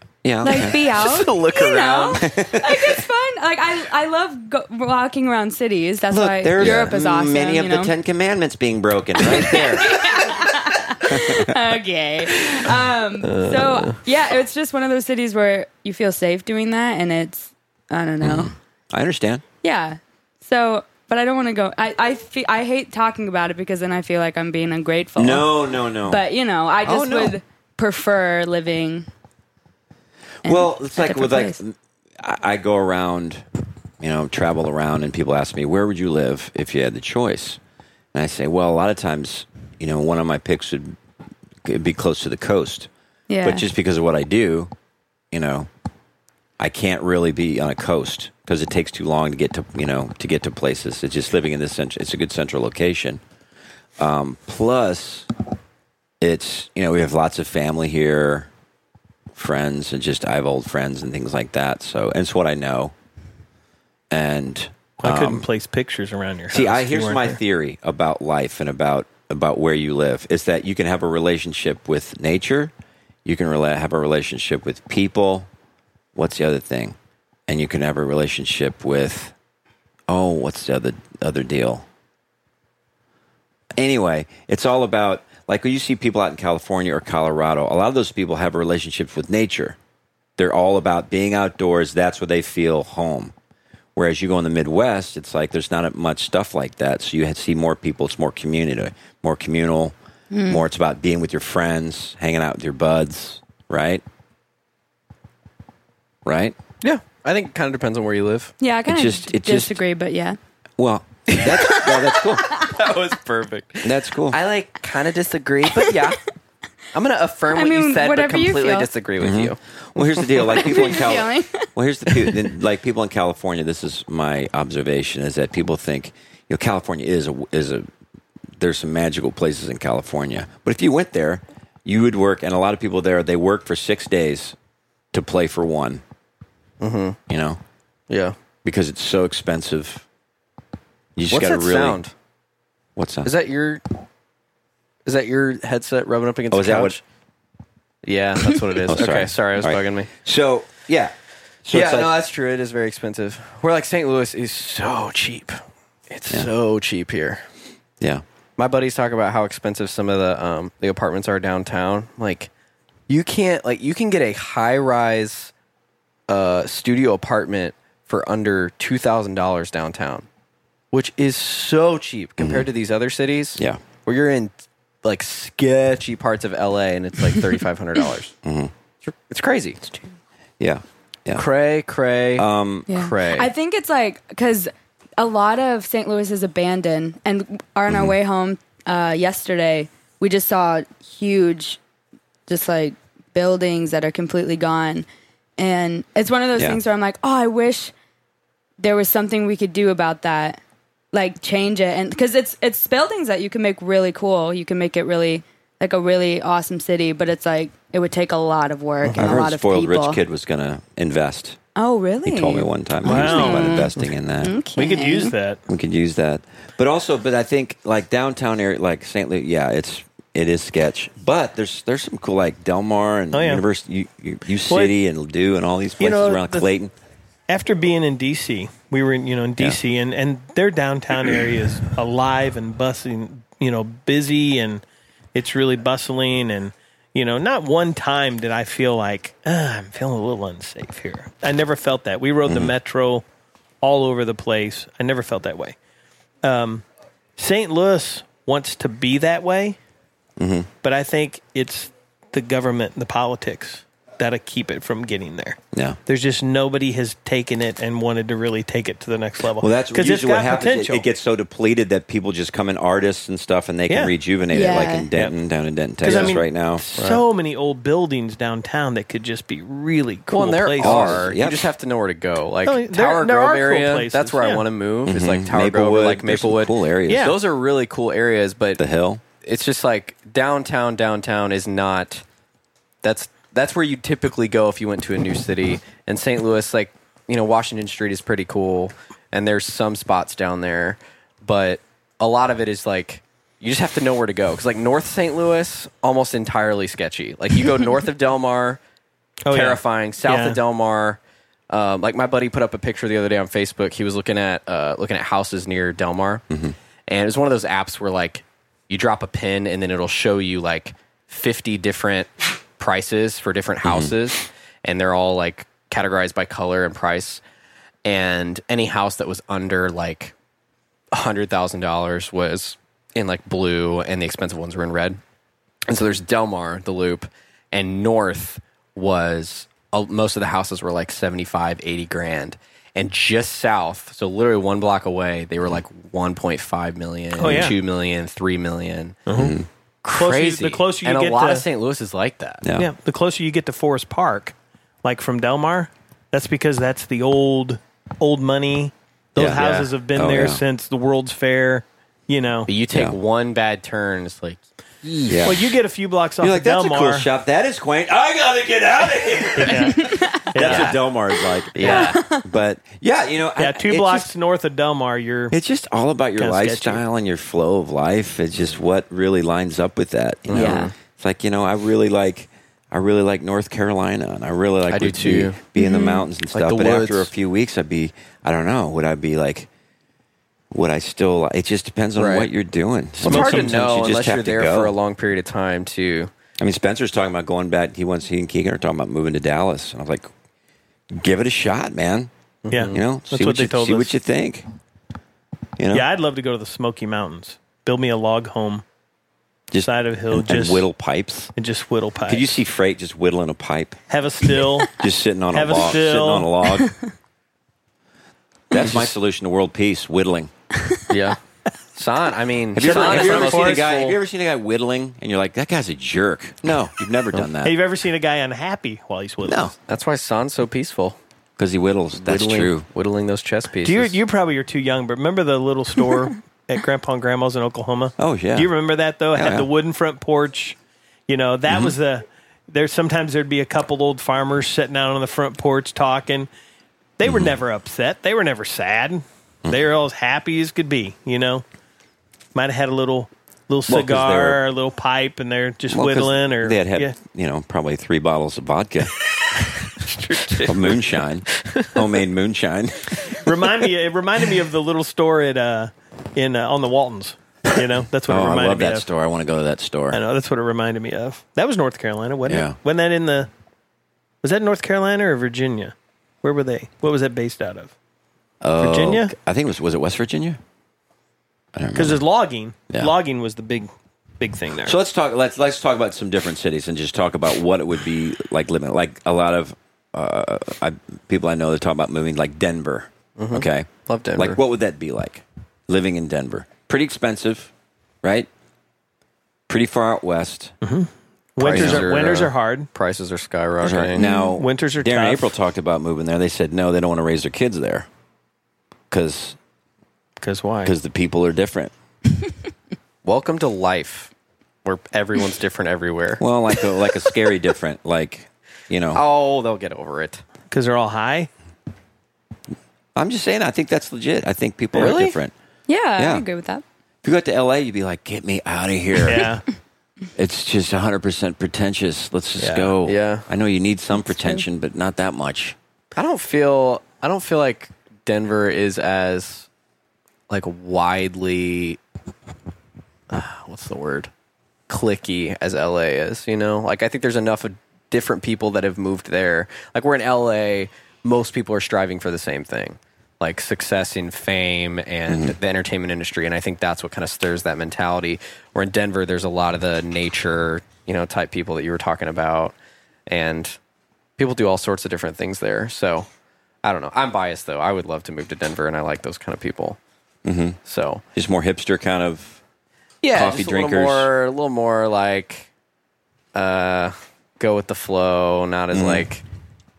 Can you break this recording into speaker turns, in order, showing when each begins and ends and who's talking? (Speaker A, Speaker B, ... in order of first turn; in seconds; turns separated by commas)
Speaker A: 0.2-0.8, Speaker B: 0.4-7.9, Speaker C: 0.8-2.3, Speaker A: 2.2-3.0, Speaker A: 6.1-10.0, Speaker C: 6.6-6.9, Speaker B: 9.2-18.5, Speaker A: 11.1-11.6, Speaker C: 13.2-14.0, Speaker A: 18.2-19.4, Speaker B: 19.6-29.1, Speaker A: 25.2-26.2, Speaker A: 26.8-27.3, Speaker A: 30.4-33.4, Speaker B: 30.4-31.6, Speaker A: 34.0-37.6, Speaker A: 38.1-41.0, Speaker A: 41.6-42.9, Speaker B: 43.3-43.7, Speaker A: 43.4-44.7, Speaker A: 45.3-45.7, Speaker A: 46.6-53.2, Speaker A: 54.0-55.3, Speaker A: 56.2-58.5, Speaker A: 59.3-62.9, Speaker A: 64.1-65.5, Speaker D: 65.0-67.4, Speaker A: 66.5-72.7, Speaker A: 73.2-75.5, Speaker A: 76.1-77.0, Speaker A: 77.5-79.3, Speaker A: 80.1-81.8, Speaker A: 83.8-89.8, Speaker A: 90.4-93.3, Speaker A: 94.0-99.9, Speaker B: 100.3-100.6, Speaker A: 100.5-104.0, Speaker A: 106.2-106.5, Speaker C: 106.8-108.5, Speaker B: 108.6-110.4, Speaker A: 108.9-109.8, Speaker A: 110.8-112.6, Speaker C: 111.3-111.8, Speaker C: 112.4-116.2, Speaker A: 113.8-114.4, Speaker B: 115.8-116.1, Speaker C: 116.9-119.6, Speaker B: 117.5-118.9, Speaker A: 119.2-127.9, Speaker B: 120.4-121.7, Speaker A: 128.6-134.6, Speaker A: 135.1-136.0, Speaker C: 136.8-137.2, Speaker A: 137.3-137.6, Speaker C: 138.1-138.3, Speaker A: 138.6-140.0, Speaker A: 141.2-142.0, Speaker C: 141.3-142.1, Speaker A: 142.9-143.3, Speaker C: 143.2-143.8, Speaker C: 145.0-147.0, Speaker A: 146.5-147.0, Speaker C: 148.0-150.1, Speaker A: 148.8-151.1, Speaker A: 151.6-152.1, Speaker C: 151.7-157.5, Speaker C: 158.6-162.5, Speaker C: 163.1-165.5, Speaker C: 166.3-170.3, Speaker C: 170.9-178.3, Speaker A: 172.4-172.7, Speaker A: 178.4-178.7, Speaker C: 179.0-179.9, Speaker A: 180.6-181.4, Speaker C: 181.3-183.5, Speaker A: 182.4-182.9, Speaker B: 182.9-191.8, Speaker A: 187.9-188.1, Speaker B: 192.5-195.1, Speaker B: 195.6-197.9, Speaker B: 198.8-200.6, Speaker B: 201.1-210.2, Speaker C: 209.0-209.4, Speaker A: 209.2-211.6, Speaker B: 211.8-215.3, Speaker A: 212.2-214.5, Speaker D: 213.0-213.9, Speaker D: 214.7-215.6, Speaker A: 215.7-226.9, Speaker D: 223.3-223.6, Speaker D: 224.7-224.9, Speaker D: 226.0-226.7, Speaker D: 227.5-234.8, Speaker D: 235.3-243.2, Speaker A: 242.4-242.7, Speaker D: 243.8-245.8, Speaker D: 246.4-246.8, Speaker D: 247.4-249.8, Speaker A: 250.4-250.7, Speaker D: 250.8-261.1, Speaker A: 255.7-256.0, Speaker A: 259.6-266.8, Speaker D: 263.9-264.1, Speaker B: 264.5-265.1, Speaker D: 266.0-271.3, Speaker C: 266.0-266.4, Speaker C: 266.9-267.2, Speaker C: 270.3-278.8, Speaker A: 270.8-271.7, Speaker D: 272.6-274.6, Speaker A: 275.1-277.3, Speaker D: 277.1-277.4, Speaker A: 278.8-279.2, Speaker C: 279.4-282.2, Speaker C: 283.0-298.8, Speaker D: 299.4-300.6, Speaker C: 299.5-301.2, Speaker C: 301.7-306.4, Speaker A: 306.5-306.8, Speaker C: 307.1-317.4, Speaker A: 313.8-314.1, Speaker C: 318.0-320.3, Speaker C: 321.1-325.2, Speaker C: 325.9-339.2, Speaker D: 337.4-337.8, Speaker A: 337.4-337.7, Speaker D: 339.3-339.6, Speaker A: 339.3-339.7, Speaker C: 340.0-342.6, Speaker D: 340.1-341.6, Speaker A: 342.6-342.9, Speaker D: 342.8-352.7, Speaker A: 349.4-349.6, Speaker C: 349.5-349.9, Speaker A: 350.1-350.6, Speaker C: 352.7-355.5, Speaker A: 352.9-353.2, Speaker A: 355.3-355.8, Speaker D: 355.4-357.3, Speaker A: 356.4-364.3, Speaker D: 359.6-361.1, Speaker B: 359.9-360.5, Speaker C: 360.6-361.0, Speaker C: 361.7-362.2, Speaker B: 361.9-362.5, Speaker D: 363.6-365.5, Speaker A: 365.5-379.7, Speaker D: 366.4-367.0, Speaker C: 370.5-370.9, Speaker B: 370.5-370.9, Speaker C: 374.9-375.6, Speaker B: 375.8-376.3, Speaker C: 376.5-377.3, Speaker A: 380.7-384.9, Speaker C: 382.1-382.5, Speaker C: 383.2-386.3, Speaker D: 383.2-383.7, Speaker A: 386.6-390.3, Speaker A: 391.1-392.3, Speaker C: 392.6-393.0, Speaker D: 392.7-394.2, Speaker A: 392.9-394.6, Speaker A: 395.8-396.1, Speaker D: 395.9-398.8, Speaker A: 399.7-401.5, Speaker D: 399.8-400.9, Speaker D: 401.6-402.6, Speaker A: 402.3-404.0, Speaker D: 404.1-404.9, Speaker A: 405.0-406.9, Speaker D: 405.5-406.5, Speaker B: 406.8-407.1, Speaker A: 408.7-410.5, Speaker C: 408.7-409.1, Speaker C: 411.1-411.4, Speaker C: 411.9-414.2, Speaker A: 412.7-417.8, Speaker D: 412.8-413.9, Speaker D: 417.6-419.7, Speaker A: 419.4-419.7, Speaker C: 419.9-421.2, Speaker A: 421.6-422.9, Speaker C: 422.2-424.2, Speaker D: 423.8-430.8, Speaker A: 428.2-428.7, Speaker A: 429.3-429.7, Speaker D: 431.3-436.5, Speaker A: 431.7-431.9, Speaker D: 437.2-441.6, Speaker A: 437.2-437.5, Speaker D: 442.5-447.1, Speaker A: 443.9-444.6, Speaker A: 445.9-449.1, Speaker C: 449.9-451.9, Speaker A: 450.6-453.4, Speaker D: 453.4-459.1, Speaker A: 458.3-460.2, Speaker D: 460.1-463.5, Speaker A: 462.4-462.8, Speaker D: 464.4-467.9, Speaker A: 468.6-470.6, Speaker D: 468.8-469.3, Speaker A: 471.7-472.2, Speaker D: 471.9-474.9, Speaker A: 474.8-487.7, Speaker C: 483.4-484.6, Speaker A: 488.2-488.5, Speaker A: 489.7-490.7, Speaker D: 490.8-492.9, Speaker C: 491.6-494.2, Speaker A: 491.7-492.1, Speaker A: 493.8-498.1, Speaker B: 494.2-494.6, Speaker D: 494.6-495.5, Speaker A: 499.1-499.6, Speaker D: 500.4-500.9, Speaker A: 500.8-501.9, Speaker C: 503.2-504.3, Speaker C: 504.8-506.4, Speaker A: 506.4-509.2, Speaker C: 509.1-510.4, Speaker D: 510.7-511.5, Speaker A: 513.1-515.5, Speaker C: 514.9-515.4, Speaker B: 515.9-516.8, Speaker A: 516.2-516.5, Speaker A: 517.2-519.5, Speaker D: 519.2-519.6, Speaker A: 520.4-525.8, Speaker D: 522.6-522.9, Speaker C: 523.0-523.5, Speaker C: 526.1-529.7, Speaker C: 530.5-532.0, Speaker C: 533.3-534.3, Speaker C: 534.9-552.8, Speaker A: 545.3-545.5, Speaker C: 553.3-553.8, Speaker C: 554.4-556.3, Speaker C: 556.8-560.0, Speaker A: 560.4-560.8, Speaker C: 560.8-561.2, Speaker A: 561.3-562.6, Speaker C: 563.2-565.7, Speaker A: 563.3-564.3, Speaker C: 566.5-569.4, Speaker A: 568.9-569.3